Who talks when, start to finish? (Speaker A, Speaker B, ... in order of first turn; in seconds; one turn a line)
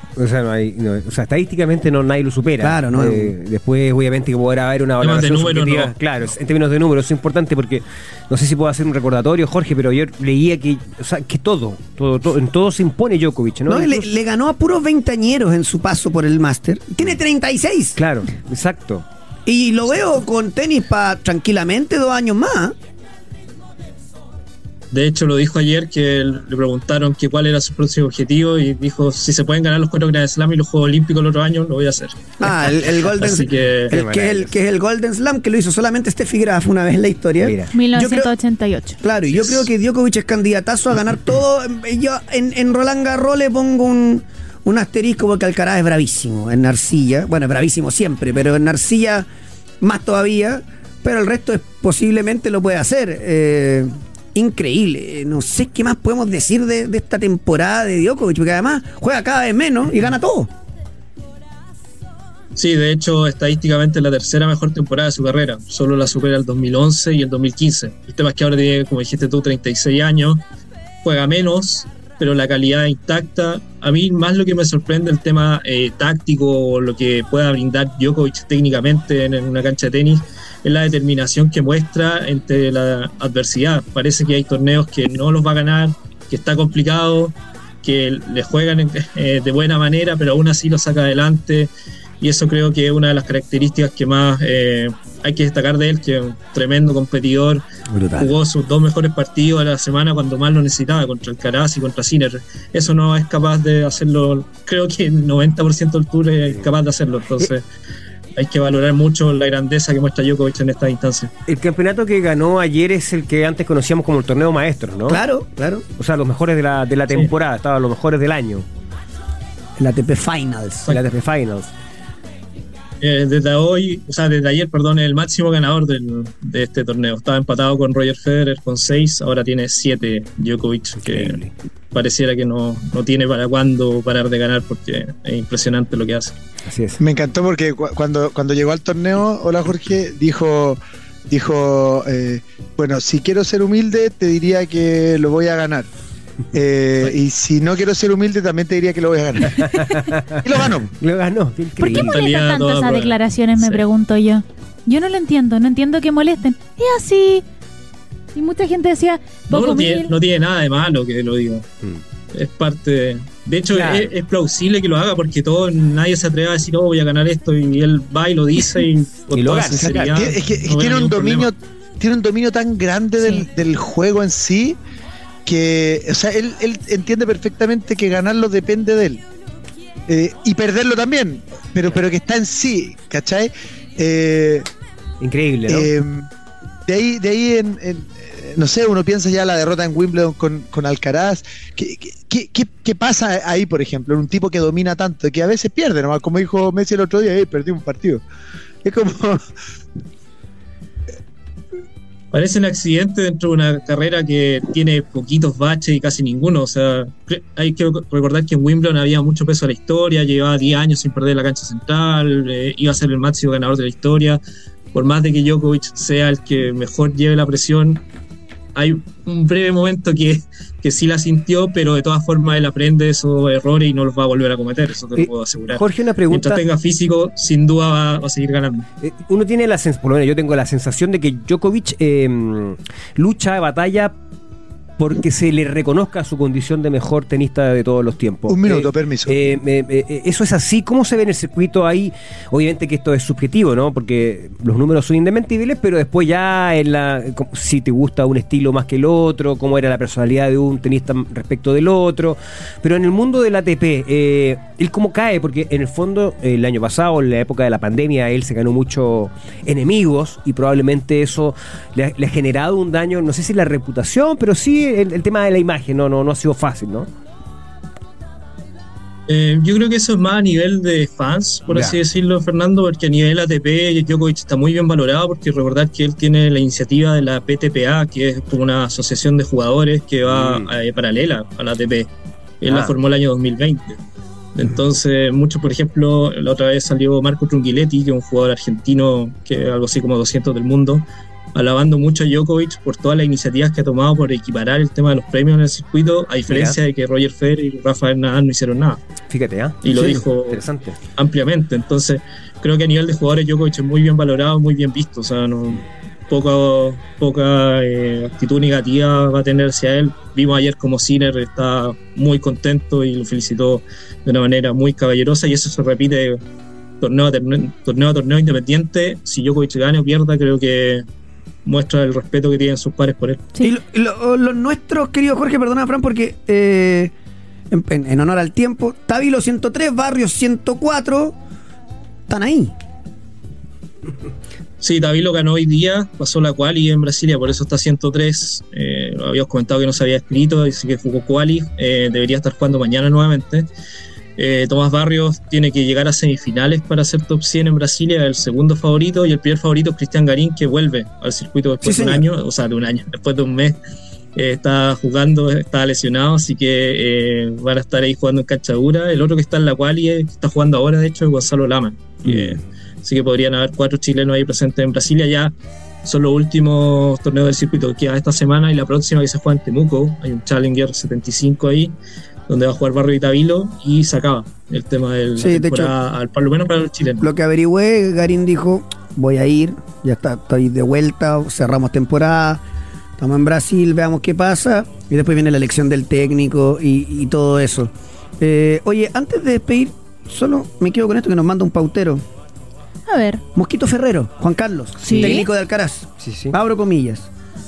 Speaker A: 0.1-14.1
Speaker B: 2.6-3.3
Speaker C: 5.0-5.9
Speaker B: 13.7-18.0
Speaker A: 17.9-19.0
Speaker B: 19.4-22.7
Speaker C: 24.9-34.0
Speaker B: 32.4-38.3
Speaker A: 33.9-34.5
Speaker A: 37.4-37.7
Speaker D: 37.7-39.0
Speaker B: 39.0-49.3
Speaker B: 49.8-60.5
Speaker C: 62.5-70.4
Speaker C: 71.0-91.7
Speaker C: 92.2-97.6
Speaker B: 97.9-98.3
Speaker C: 98.2-107.6
Speaker C: 108.3-111.3
Speaker A: 111.5-115.2
Speaker B: 115.0-115.8
Speaker A: 116.0-118.6
Speaker B: 119.8-121.0
Speaker A: 120.9-121.7
Speaker C: 123.0-136.3
Speaker A: 131.0-131.5
Speaker A: 136.7-137.0
Speaker E: 137.0-145.9
Speaker E: 146.5-150.9
Speaker A: 149.4-152.1
Speaker D: 151.8-157.4
Speaker C: 151.8-153.2
Speaker D: 158.3-160.1
Speaker C: 159.5-161.7
Speaker C: 162.3-171.5
Speaker A: 169.3-170.1
Speaker E: 169.8-174.8
Speaker E: 175.4-179.2
Speaker E: 180.1-184.7
Speaker A: 185.2-185.9
Speaker E: 185.7-186.2
Speaker E: 186.9-198.2
Speaker E: 198.8-199.4
Speaker C: 202.3-214.4
Speaker C: 214.9-218.0
Speaker C: 218.7-228.8
Speaker A: 225.2-226.6
Speaker A: 229.0-234.1
Speaker A: 235.0-267.1
Speaker E: 238.5-239.4
Speaker C: 269.3-282.1
Speaker A: 280.3-280.7
Speaker C: 282.6-284.0
Speaker A: 282.7-282.9
Speaker C: 284.5-299.0
Speaker A: 296.5-296.8
Speaker A: 299.3-301.0
Speaker C: 299.8-300.6
Speaker C: 301.1-316.4
Speaker C: 317.0-321.0
Speaker C: 321.6-323.5
Speaker B: 323.6-327.1
Speaker B: 327.7-331.4
Speaker B: 332.3-332.7
Speaker C: 334.8-343.7
Speaker C: 344.4-353.8
Speaker B: 351.8-352.2
Speaker C: 354.3-365.5
Speaker C: 366.0-371.9
Speaker C: 372.5-377.3
Speaker B: 375.4-375.9
Speaker B: 377.2-382.6
Speaker B: 383.2-392.2
Speaker D: 393.1-393.4
Speaker B: 393.5-397.3
Speaker D: 395.0-395.5
Speaker A: 395.1-395.3
Speaker A: 396.2-396.5